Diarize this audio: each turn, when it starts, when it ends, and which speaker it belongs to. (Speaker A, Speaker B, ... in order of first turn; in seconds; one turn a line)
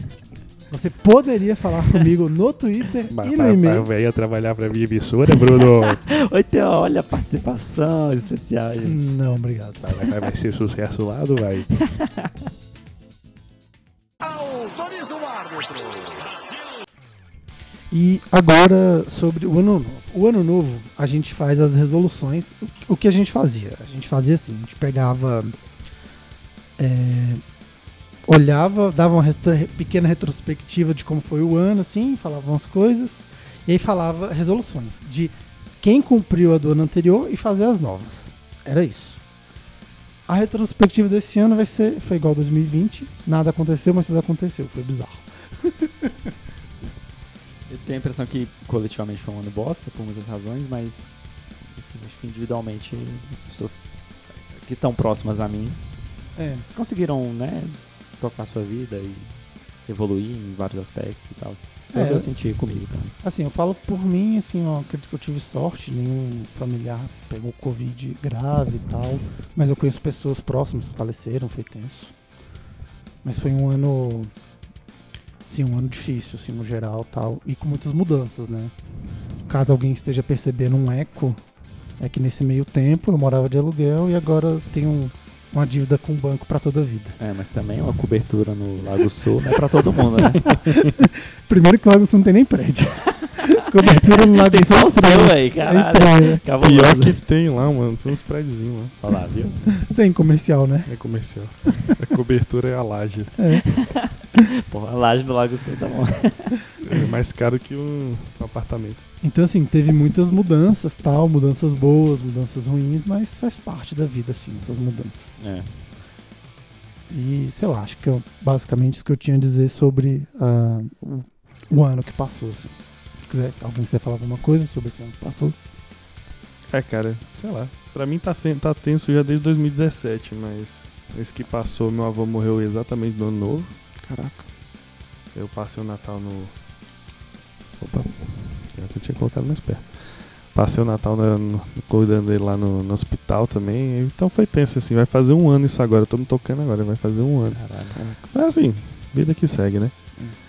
Speaker A: 0.7-3.9
Speaker B: 3.1-6.0
Speaker C: 5.4-9.1
Speaker A: 8.8-10.1
Speaker B: 9.8-11.7
Speaker C: 11.8-12.3
Speaker D: 14.2-16.5
Speaker A: 17.9-25.5
Speaker A: 26.8-27.4
Speaker A: 28.2-39.2
Speaker A: 40.3-46.3
Speaker C: 47.7-55.8
Speaker A: 56.4-56.6
Speaker C: 56.7-59.3
Speaker C: 59.9-63.1
Speaker A: 61.9-62.3
Speaker A: 63.2-72.1
Speaker A: 73.2-74.3
Speaker A: 75.5-78.7
Speaker A: 79.5-81.4
Speaker A: 82.0-87.2
Speaker C: 87.2-90.6
Speaker A: 90.3-96.4
Speaker C: 93.3-97.2
Speaker B: 96.6-99.0
Speaker C: 99.0-99.6
Speaker A: 99.7-100.9
Speaker B: 100.9-103.3
Speaker A: 103.4-103.7
Speaker C: 103.6-106.5
Speaker B: 106.8-109.0
Speaker A: 109.2-115.4
Speaker C: 115.4-115.7
Speaker A: 117.1-125.5
Speaker B: 126.7-133.7
Speaker A: 134.0-134.4
Speaker B: 135.3-136.5
Speaker B: 137.8-147.6
Speaker C: 147.5-148.0
Speaker A: 147.9-148.2
Speaker B: 148.3-149.9